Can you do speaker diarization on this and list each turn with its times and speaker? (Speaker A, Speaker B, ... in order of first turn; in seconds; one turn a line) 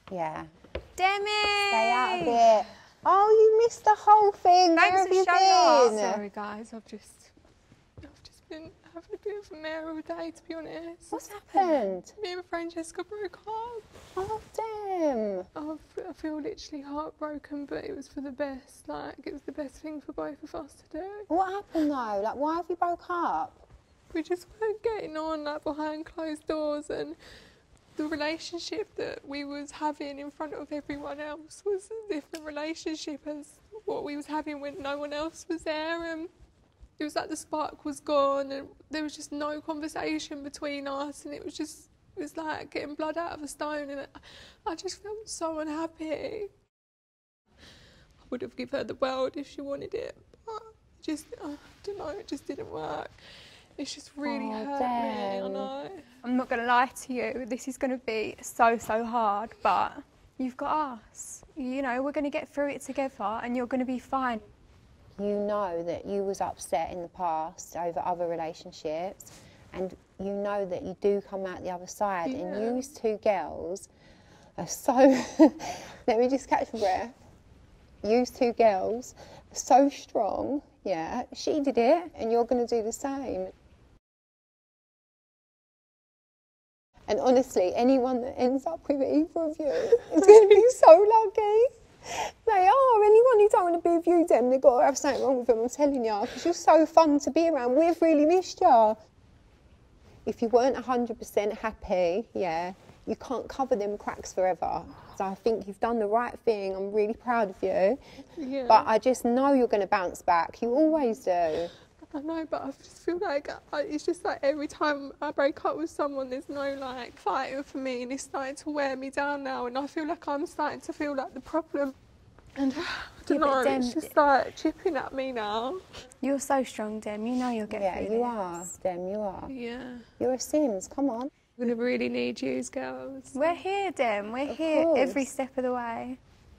Speaker A: 0.1-0.5
Speaker B: 1.0-2.5
Speaker A: 1.7-6.2
Speaker B: 4.8-6.2
Speaker C: 5.8-7.3
Speaker C: 8.0-11.2
Speaker B: 11.1-11.8
Speaker A: 11.1-12.1
Speaker C: 12.2-13.9
Speaker A: 14.2-15.5
Speaker C: 15.6-21.3
Speaker A: 21.3-23.6
Speaker C: 24.1-27.2
Speaker C: 28.0-36.3
Speaker C: 37.0-46.5
Speaker C: 48.3-53.2
Speaker C: 53.8-56.1
Speaker A: 54.2-55.7
Speaker B: 56.2-64.4
Speaker A: 65.2-73.9
Speaker C: 72.2-72.9
Speaker A: 74.6-77.2
Speaker A: 78.0-83.5
Speaker A: 87.1-99.0
Speaker A: 100.2-108.0
Speaker C: 108.4-108.9
Speaker A: 108.7-111.7
Speaker C: 112.1-122.0
Speaker C: 122.6-125.8
Speaker B: 123.3-124.1
Speaker B: 126.2-128.7
Speaker A: 127.7-129.5
Speaker C: 129.5-130.1
Speaker A: 130.2-131.3
Speaker C: 131.6-133.6
Speaker B: 133.3-136.2
Speaker A: 134.5-135.3